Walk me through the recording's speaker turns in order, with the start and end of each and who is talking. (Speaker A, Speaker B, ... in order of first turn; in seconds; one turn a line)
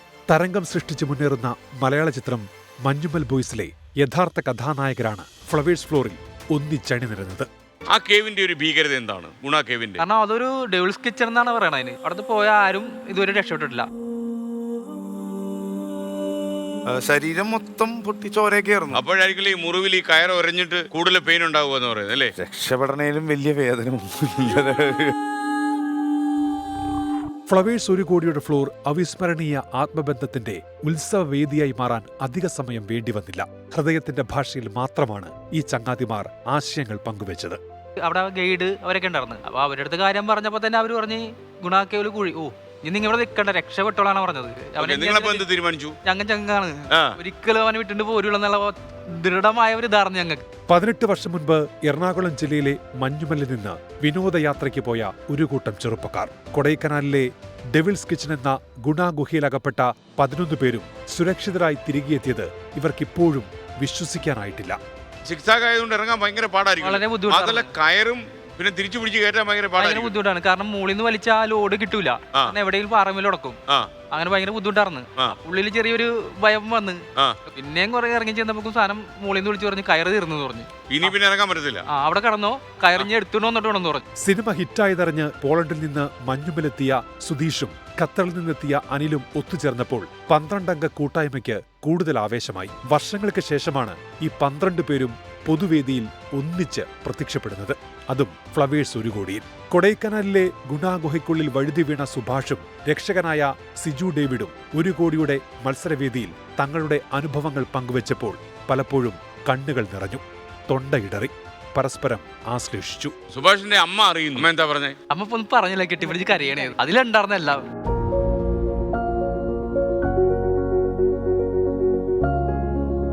Speaker A: 0.3-7.5
Speaker B: 7.9-10.0
Speaker C: 10.0-13.9
Speaker D: 16.9-19.0
Speaker B: 18.9-22.3
Speaker D: 22.4-25.1
Speaker A: 27.5-37.6
Speaker C: 38.0-45.4
Speaker B: 44.8-45.9
Speaker C: 46.0-50.4
Speaker B: 46.9-47.1
Speaker A: 50.7-64.8
Speaker B: 65.2-70.1
Speaker C: 66.8-67.7
Speaker C: 69.8-73.6
Speaker C: 74.1-81.1
Speaker B: 80.9-81.8
Speaker C: 81.9-84.0
Speaker A: 84.2-113.1
Speaker B: 113.3-114.9
Speaker C: 115.1-117.6